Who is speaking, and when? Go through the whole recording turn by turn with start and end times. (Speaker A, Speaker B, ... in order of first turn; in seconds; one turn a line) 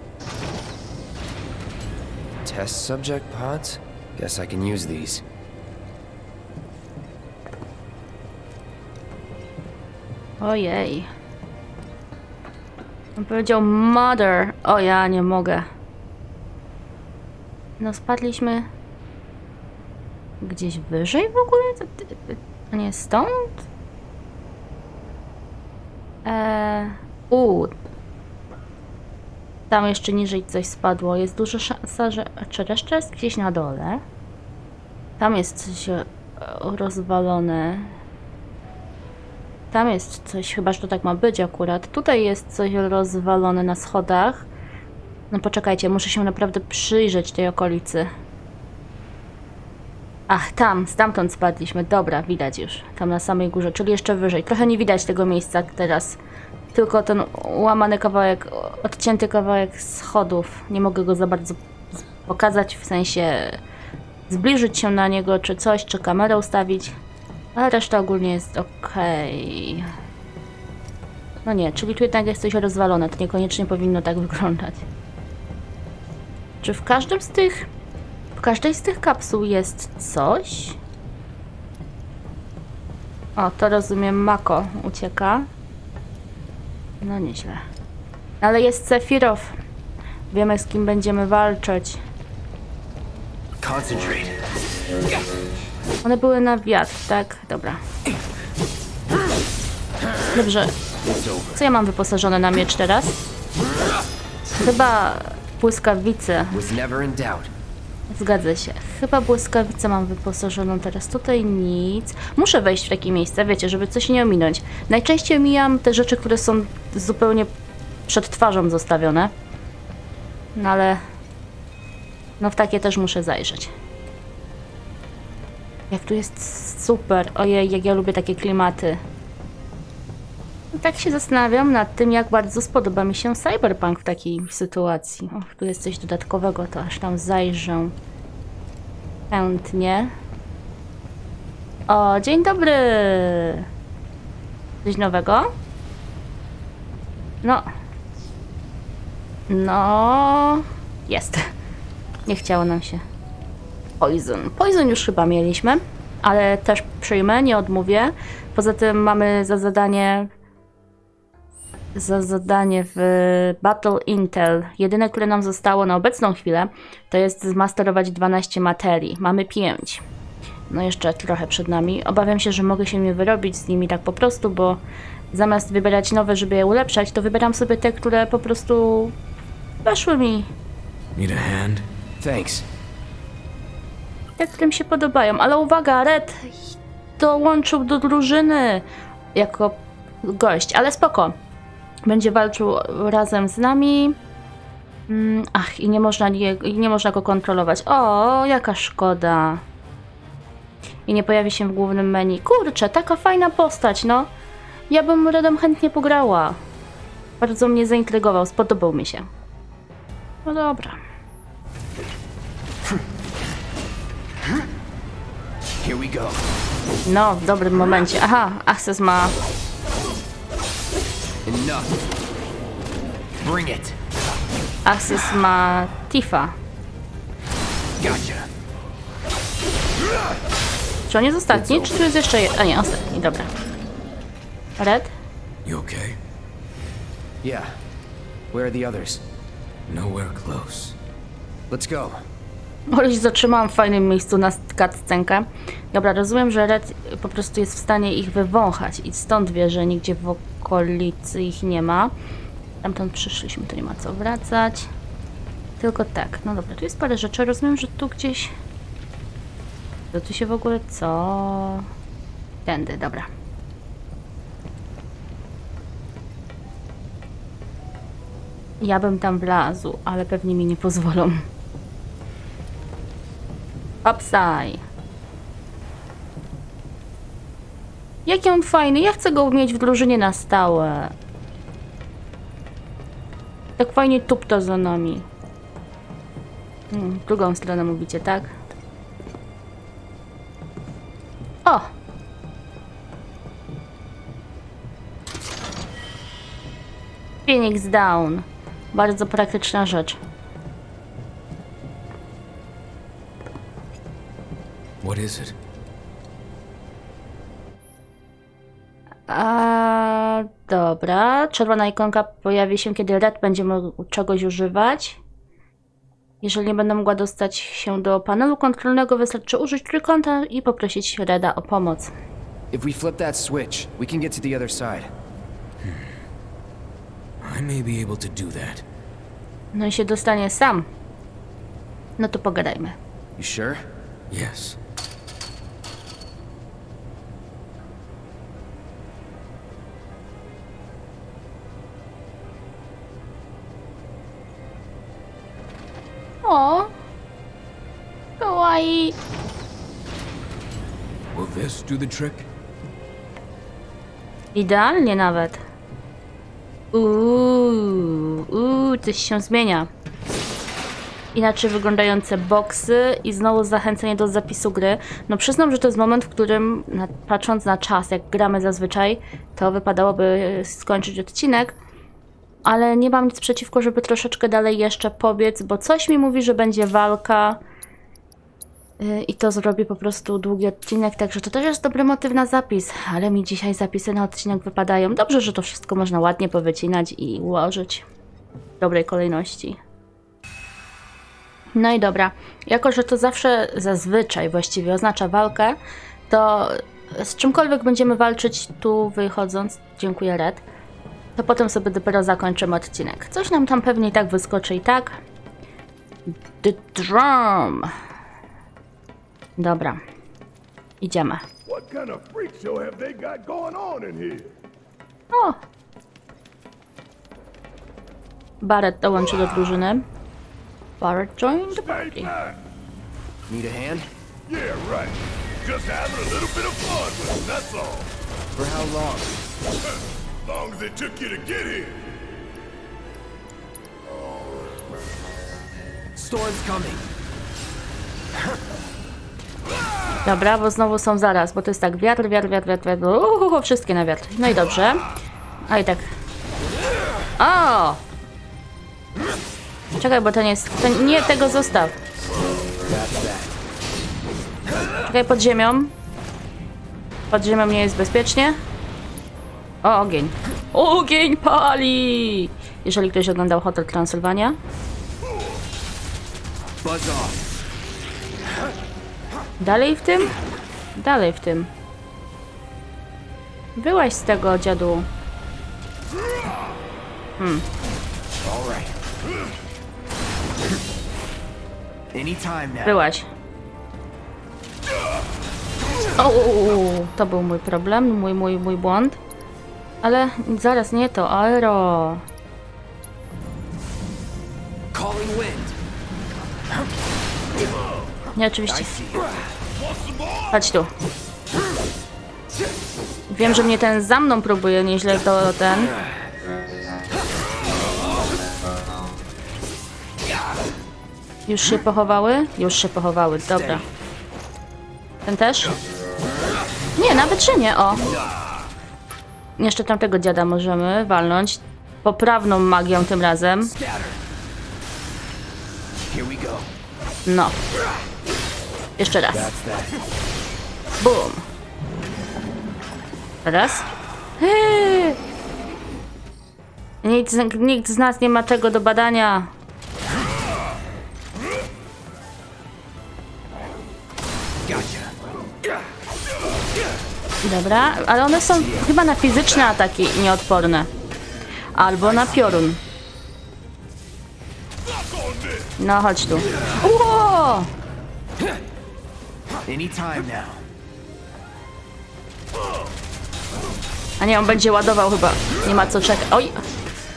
Speaker A: 2.4-5.2
Speaker B: 10.4-11.1
Speaker B: 13.2-15.7
Speaker B: 17.8-18.7
Speaker B: 20.4-23.6
Speaker B: 26.2-27.7
Speaker B: 29.7-34.0
Speaker B: 35.2-38.0
Speaker B: 39.7-44.5
Speaker B: 45.3-48.1
Speaker B: 50.3-56.2
Speaker B: 56.7-61.6
Speaker B: 62.2-63.6
Speaker B: 64.3-67.0
Speaker B: 67.5-69.9
Speaker B: 71.5-74.9
Speaker B: 76.6-77.7
Speaker B: 78.4-80.8
Speaker B: 83.4-85.5
Speaker B: 87.0-87.7
Speaker B: 88.4-89.5
Speaker B: 90.3-92.0
Speaker A: 93.6-94.4
Speaker B: 96.0-97.8
Speaker B: 100.3-100.7
Speaker A: 101.0-101.6
Speaker B: 101.5-103.2
Speaker B: 104.6-106.6
Speaker A: 106.5-107.5
Speaker B: 108.1-117.5
Speaker B: 118.1-119.3
Speaker B: 120.6-121.0
Speaker B: 122.4-123.7
Speaker B: 125.9-129.0
Speaker B: 130.7-137.9
Speaker B: 139.3-140.1
Speaker B: 141.9-143.7
Speaker B: 144.8-145.5
Speaker B: 149.5-151.5
Speaker B: 152.3-153.0
Speaker B: 154.0-160.3
Speaker B: 161.9-170.0
Speaker B: 170.7-179.1
Speaker B: 179.8-180.5
Speaker C: 181.2-181.8
Speaker A: 182.2-182.7
Speaker B: 184.4-186.6
Speaker B: 187.2-188.8
Speaker B: 189.3-191.3
Speaker B: 192.1-194.2
Speaker B: 195.1-199.6
Speaker B: 201.1-204.3
Speaker B: 204.9-206.6
Speaker B: 207.4-209.3
Speaker B: 210.4-211.0
Speaker A: 215.8-216.5
Speaker B: 217.1-219.3
Speaker A: 221.4-222.0
Speaker A: 223.4-224.0
Speaker B: 224.9-226.6
Speaker A: 228.0-228.5
Speaker B: 231.1-233.5
Speaker A: 231.5-232.0
Speaker B: 234.8-235.1
Speaker C: 235.7-236.2
Speaker A: 237.4-237.8
Speaker A: 238.5-239.2
Speaker C: 239.9-241.0
Speaker A: 241.7-242.2
Speaker B: 242.9-252.1
Speaker B: 252.8-254.9
Speaker B: 255.8-258.5
Speaker B: 260.1-261.9
Speaker B: 262.7-263.3
Speaker B: 268.8-271.4
Speaker B: 274.1-274.8
Speaker B: 278.3-281.1
Speaker B: 283.8-285.3
Speaker B: 286.9-288.5
Speaker B: 291.6-291.9
Speaker B: 297.5-300.2
Speaker C: 305.0-305.6
Speaker B: 309.3-315.2
Speaker B: 316.4-322.1
Speaker A: 322.7-325.1
Speaker C: 325.8-326.1
Speaker C: 327.4-328.9
Speaker B: 329.7-330.9
Speaker B: 332.2-333.0
Speaker A: 333.4-333.8
Speaker C: 334.3-334.8
Speaker B: 346.4-346.9
Speaker B: 348.4-349.1
Speaker C: 351.3-352.5
Speaker B: 354.6-355.6
Speaker B: 356.9-359.9
Speaker B: 361.4-371.8
Speaker B: 372.7-377.6
Speaker B: 379.0-388.1
Speaker B: 388.8-389.8
Speaker B: 391.8-395.8
Speaker B: 396.3-400.6
Speaker B: 401.4-405.2
Speaker B: 406.6-407.9
Speaker B: 409.6-410.0
Speaker B: 411.0-411.4
Speaker D: 411.7-414.6
Speaker B: 415.3-415.6
Speaker B: 418.6-420.1
Speaker B: 421.0-422.3
Speaker D: 421.8-422.6
Speaker A: 423.5-424.1
Speaker D: 424.5-428.1
Speaker A: 428.6-429.3
Speaker D: 430.4-432.0
Speaker A: 436.1-437.1
Speaker B: 440.2-445.0
Speaker B: 445.7-446.1
Speaker B: 447.4-448.0
Speaker B: 450.0-451.9
Speaker A: 452.9-453.6
Speaker B: 455.1-455.9
Speaker B: 457.3-458.6
Speaker B: 459.8-464.6
Speaker A: 466.8-467.4
Speaker B: 469.6-470.3
Speaker B: 470.9-471.7
Speaker B: 473.8-475.1
Speaker B: 477.4-477.6
Speaker A: 478.4-478.9
Speaker A: 482.1-483.0
Speaker B: 482.9-483.3
Speaker B: 486.2-489.2
Speaker B: 490.0-492.2
Speaker A: 494.9-495.8
Speaker B: 498.4-498.9
Speaker A: 498.7-499.4
Speaker D: 499.8-500.6
Speaker B: 500.5-500.9
Speaker B: 503.3-505.9
Speaker B: 511.5-513.9
Speaker A: 513.4-513.9
Speaker B: 515.2-515.8
Speaker B: 517.0-518.0
Speaker A: 517.9-518.4
Speaker B: 519.6-523.7
Speaker A: 523.6-524.2
Speaker A: 526.1-526.7
Speaker B: 527.3-527.6
Speaker B: 529.0-529.5
Speaker A: 529.3-530.0
Speaker B: 531.0-531.4
Speaker B: 533.5-533.9
Speaker B: 534.4-535.2
Speaker B: 537.0-539.5
Speaker A: 544.6-545.1
Speaker B: 547.4-550.9
Speaker B: 551.8-552.8
Speaker D: 554.9-555.7
Speaker B: 555.8-557.7
Speaker A: 559.7-560.6
Speaker B: 564.2-566.6